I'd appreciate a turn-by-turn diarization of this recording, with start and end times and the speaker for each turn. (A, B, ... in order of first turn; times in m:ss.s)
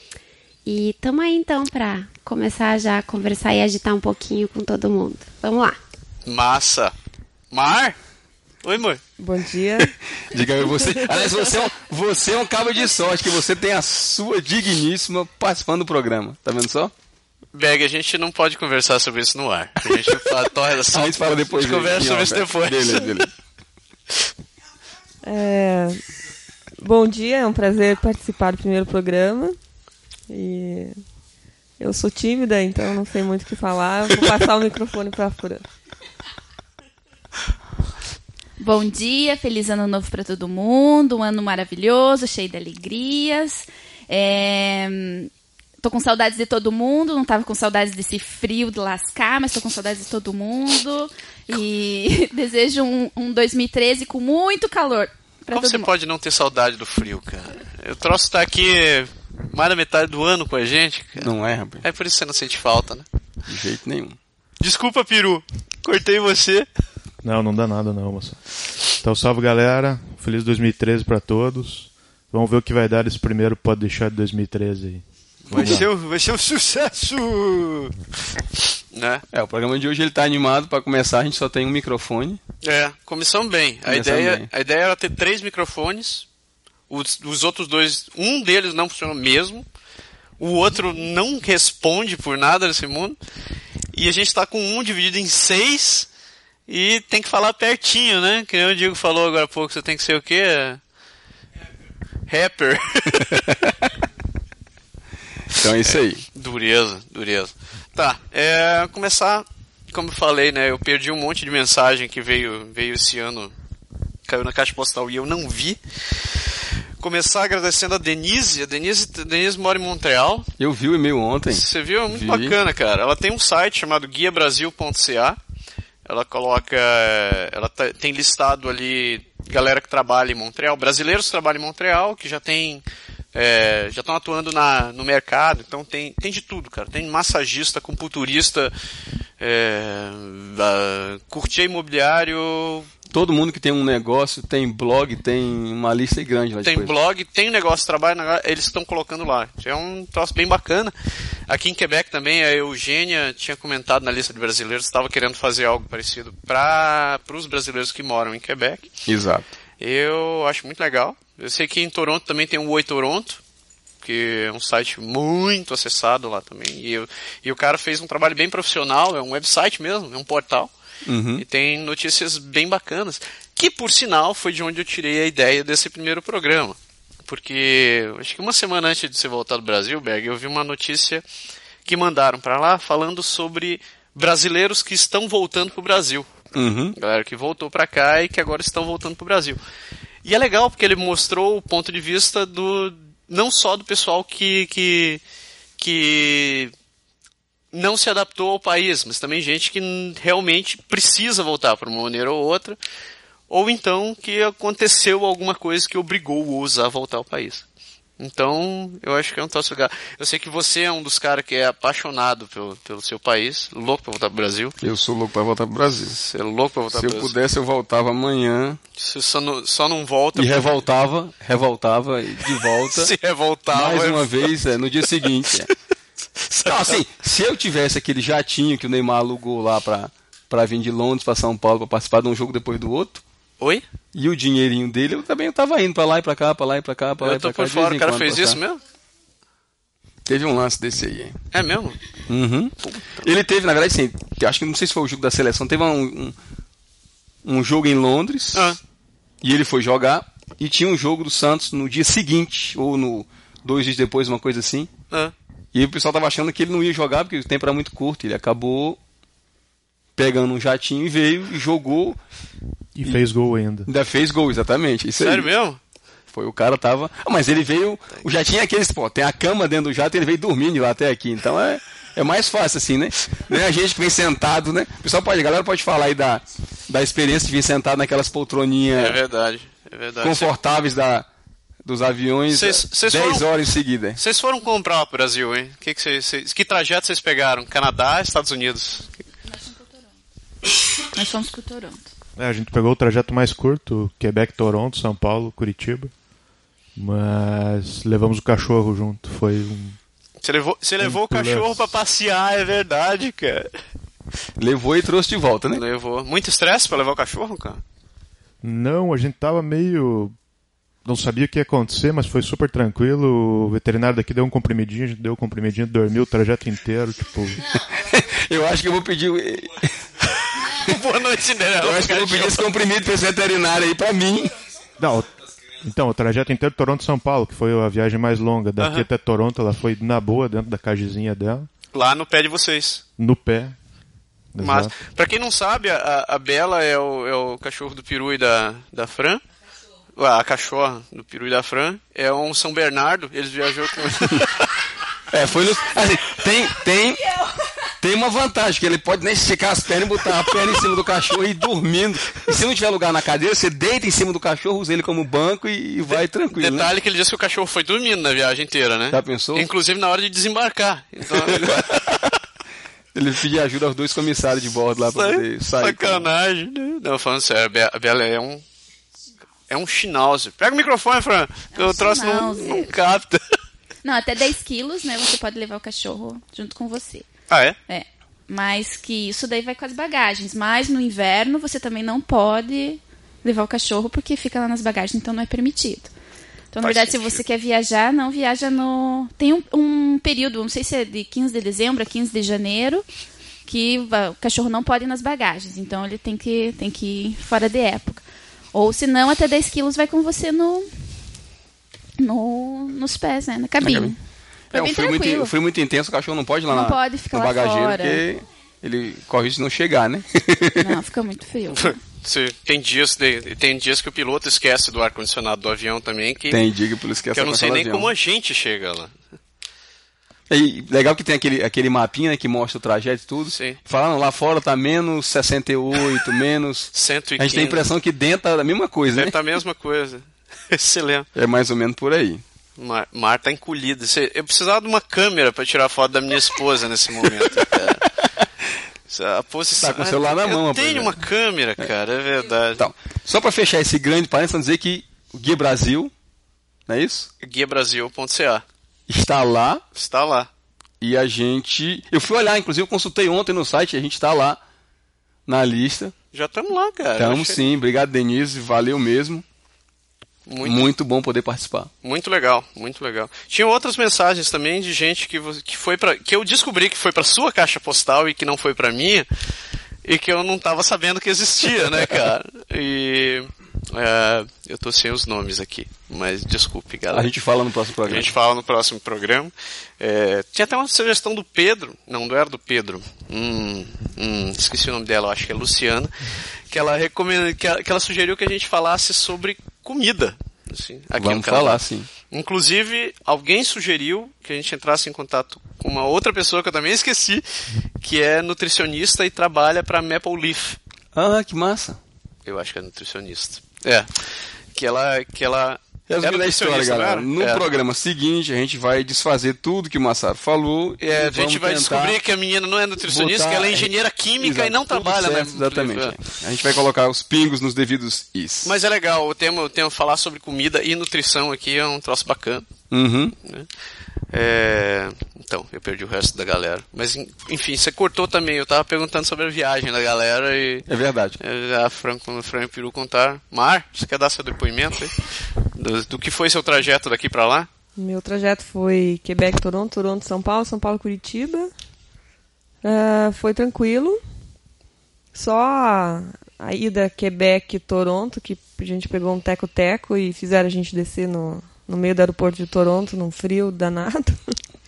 0:00.7-0:05.8 A
0:06.2-0:06.9 B
0:07.5-0:08.0 B
0:08.6-0:09.0 B
0:09.2-0:09.9 C
0:10.2-0:16.9 D
0:17.5-0:23.1 B
0:19.8-0:20.3 D
0:20.9-0:23.3 D
0:25.2-0:26.0 C
0:26.8-0:29.6 C
0:30.3-0:30.9 C
0:31.8-0:35.6 C
0:38.6-0:45.3 E
0:45.8-0:55.9 E
0:55.5-1:03.1 B
1:01.2-1:01.8 D
1:03.5-1:04.2 D
1:04.6-1:06.7 B
1:07.2-1:08.4 F
1:09.0-1:15.9 F
1:15.5-1:17.9 B
1:15.5-1:15.8 D
1:18.9-1:19.2 B
1:19.3-1:22.4 D
1:22.6-1:26.2 B
1:23.8-1:24.5 D
1:26.9-1:29.6 B
1:30.4-1:33.2 B
1:33.9-1:36.1 B
1:36.7-1:40.8 B
1:42.3-1:43.4 B
1:43.2-1:43.7 D
1:45.5-1:46.2 D
1:45.8-1:53.5 B
1:54.3-1:56.4 B
1:57.0-2:00.5 B
2:00.6-2:02.6 D
2:01.5-2:05.4 B
2:06.0-2:18.7 B
2:19.4-2:22.9 B
2:23.1-2:26.9 D
2:26.6-2:30.9 B
2:31.5-2:38.9 B
2:39.1-2:39.5 D
2:39.8-2:43.4 B
2:44.0-2:50.7 B
2:51.0-2:51.4 D
2:51.4-3:01.2 B
3:01.8-3:06.3 B
3:06.5-3:07.0 D
3:07.0-3:09.6 B
3:10.2-3:15.2 B
3:15.8-3:16.7 B
3:17.7-3:22.8 B
3:23.5-3:27.6 B
3:28.2-3:34.8 B
3:34.8-3:36.2 D
3:36.1-3:37.3 B
3:36.9-3:38.8 D
3:39.0-3:40.8 B
3:40.3-3:43.1 D
3:42.8-3:44.5 B
3:43.7-3:45.7 D
3:46.5-3:47.0 B
3:46.6-3:53.2 D
3:53.6-3:53.8 B
3:54.1-3:58.6 D
3:57.2-3:58.8 B
4:00.2-4:01.4 D
4:01.5-4:02.0 B
4:02.3-4:06.3 D
4:02.8-4:03.2 B
4:07.4-4:08.7 D
4:08.5-4:08.8 B
4:09.4-4:14.9 D
4:15.7-4:19.0 D
4:20.2-4:22.2 D
4:23.0-4:23.9 F
4:23.9-4:25.5 D
4:25.2-4:25.8 B
4:26.3-4:39.2 D
4:38.9-4:40.5 B
4:40.2-4:41.2 D
4:41.8-4:44.2 D
4:42.5-4:43.5 B
4:44.2-4:49.0 B
4:49.4-4:50.1 E
4:51.1-4:52.1 E
4:52.4-4:56.1 F
4:57.0-5:00.0 F
5:00.4-5:03.7 B
5:01.0-5:01.9 F
5:04.6-5:05.8 D
5:05.7-5:07.8 B
5:08.6-5:10.4 F
5:11.0-5:17.8 F
5:18.1-5:20.0 D
5:20.6-5:22.7 B
5:21.8-5:24.5 D
5:25.0-5:31.7 F
5:28.8-5:29.1 B
5:31.9-5:33.0 B
5:33.2-5:33.8 F
5:34.5-5:34.9 F
5:34.6-5:39.4 B
5:40.2-5:44.6 B
5:45.3-5:47.3 D
5:48.0-5:56.9 D
5:56.1-6:02.0 B
5:59.1-5:59.7 D
6:01.3-6:02.3 D
6:03.1-6:06.3 D
6:05.1-6:08.6 B
6:09.7-6:13.4 B
6:11.7-6:12.9 E
6:14.0-6:17.3 E
6:17.5-6:17.8 B
6:17.9-6:26.1 E
6:26.7-6:33.0 E
6:26.8-6:27.4 B
6:33.6-6:40.9 E
6:42.2-6:44.2 E
6:43.8-6:44.1 D
6:44.7-6:45.6 E
6:44.7-6:50.9 D
6:46.7-6:48.2 E
6:50.8-6:52.0 E
6:51.8-6:56.6 B
6:56.5-6:58.1 D
6:57.3-6:59.1 B
7:00.5-7:09.4 D
7:03.5-7:03.8 B
7:06.9-7:07.9 B
7:09.1-7:11.3 B
7:11.4-7:12.4 D
7:12.8-7:18.1 B
7:19.1-7:22.8 B
7:19.8-7:21.2 D
7:22.8-7:26.1 D
7:26.9-7:27.3 D
7:27.4-7:28.6 B
7:29.1-7:29.8 D
7:30.0-7:30.5 B
7:31.0-7:34.6 D
7:35.5-7:36.1 D
7:36.3-7:37.6 B
7:37.2-7:39.4 D
7:40.5-7:40.8 B
7:40.6-7:41.9 D
7:42.0-7:49.3 B
7:50.0-7:57.3 B
7:57.1-7:58.3 D
7:58.1-8:17.4 B
8:11.2-8:12.1 D
8:18.0-8:20.8 B
8:21.1-8:22.0 D
8:22.5-8:27.6 B
8:26.1-8:32.2 D
8:31.0-8:36.2 B
8:33.0-8:38.8 D
8:38.6-8:42.7 B
8:42.9-8:43.4 D
8:44.3-8:50.9 B
8:50.9-8:51.4 D
8:51.4-8:57.7 B
8:58.0-9:01.7 C
9:02.8-9:04.2 C
9:05.3-9:14.5 C